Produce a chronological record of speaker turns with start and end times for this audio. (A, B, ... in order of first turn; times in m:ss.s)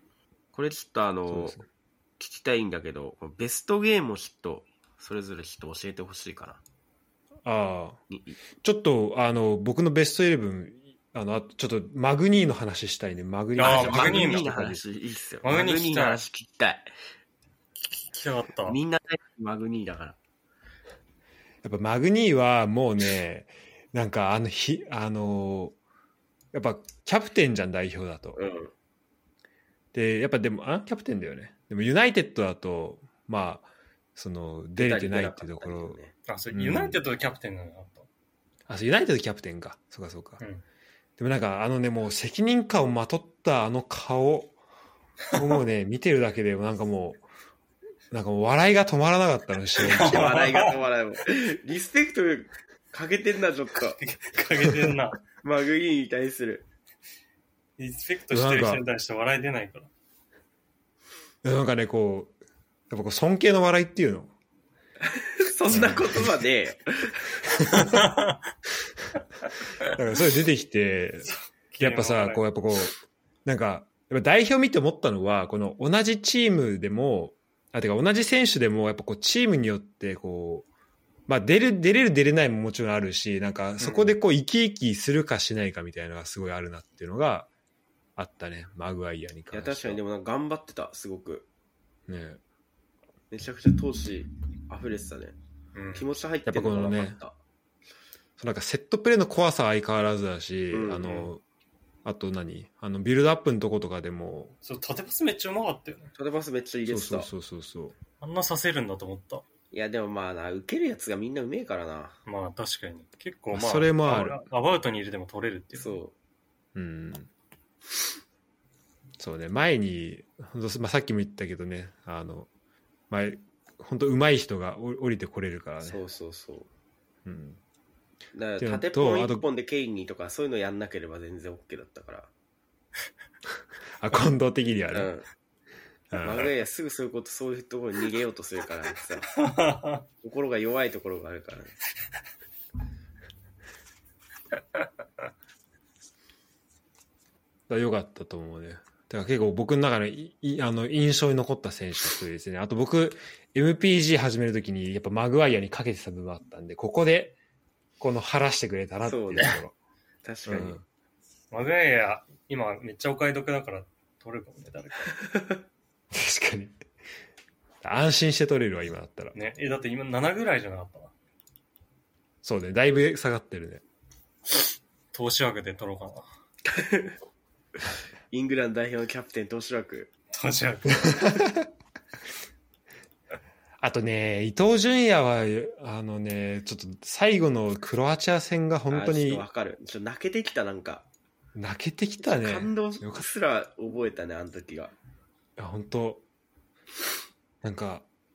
0:00.5-0:01.6 A
0:01.3-0:01.6 B
0:02.2-0:06.6 A
0:07.4-0:08.0 B
0:08.1-0:08.4 A
0:08.6-0:14.8 B
0:13.6-0:14.5 C
0:13.6-0:16.9 A
0:15.4-0:16.2 C
0:17.8-0:18.8 C
0:18.6-0:20.2 A
0:21.6-0:25.8 B
0:26.5-0:28.4 B
0:28.4-0:28.7 A
0:29.9-0:36.0 B
0:34.8-0:36.1 A
0:36.3-0:38.0 C
0:36.5-0:37.0 B
0:38.7-0:40.4 B
0:41.2-0:44.6 B
0:45.3-0:47.2 B
0:48.1-0:50.3 B
0:49.8-0:50.8 C
0:50.0-0:54.0 A
0:53.9-0:55.2 C
0:55.4-0:56.6 A
0:57.8-0:59.9 C
0:58.3-0:58.8 B
1:01.4-1:02.3 B
1:02.9-1:04.3 B
1:05.0-1:07.3 A
1:05.7-1:06.3 B
1:07.5-1:08.0 B
1:07.7-1:08.4 C
1:09.8-1:12.9 B
1:11.3-1:12.4 C
1:13.4-1:20.7 B
1:21.3-1:27.5 B
1:28.2-1:30.0 B
1:29.5-1:31.5 A
1:32.1-1:32.4 B
1:33.3-1:35.4 A
1:35.7-1:36.1 C
1:35.9-1:37.4 A
1:36.5-1:37.2 B
1:38.4-1:41.4 B
1:40.7-1:41.3 A
1:42.0-1:44.5 B
1:44.6-1:46.1 C
1:46.2-1:47.3 A
1:46.9-1:47.9 B
1:48.2-1:49.4 C
1:49.7-1:52.2 A
1:52.2-1:56.0 C
1:53.5-1:54.4 B
1:55.8-1:56.1 A
1:56.7-1:57.3 B
1:59.2-2:02.5 B
2:03.1-2:06.0 B
2:05.8-2:06.7 A
2:07.2-2:07.6 B
2:08.3-2:12.3 A
2:08.6-2:09.4 B
2:14.0-2:15.1 B
2:14.9-2:15.2 A
2:16.1-2:16.5 B
2:16.2-2:19.3 A
2:19.4-2:20.0 C
2:20.2-2:21.7 A
2:27.7-2:37.4 B
2:38.0-2:39.7 B
2:39.0-2:39.6 A
2:40.2-2:40.8 A
2:40.5-2:40.8 B
2:41.5-2:45.2 C
2:45.3-2:45.6 A
2:46.1-2:46.7 B
2:47.8-2:49.3 B
2:49.3-2:51.1 C
2:52.4-2:53.8 B
2:55.1-2:56.2 C
2:56.6-2:57.2 A
2:58.3-3:00.1 A
3:00.3-3:01.4 C
3:01.0-3:01.6 B
3:03.8-3:09.4 B
3:08.9-3:11.0 A
3:11.5-3:13.2 B
3:12.2-3:14.9 A
3:15.6-3:16.2 B
3:17.6-3:18.0 B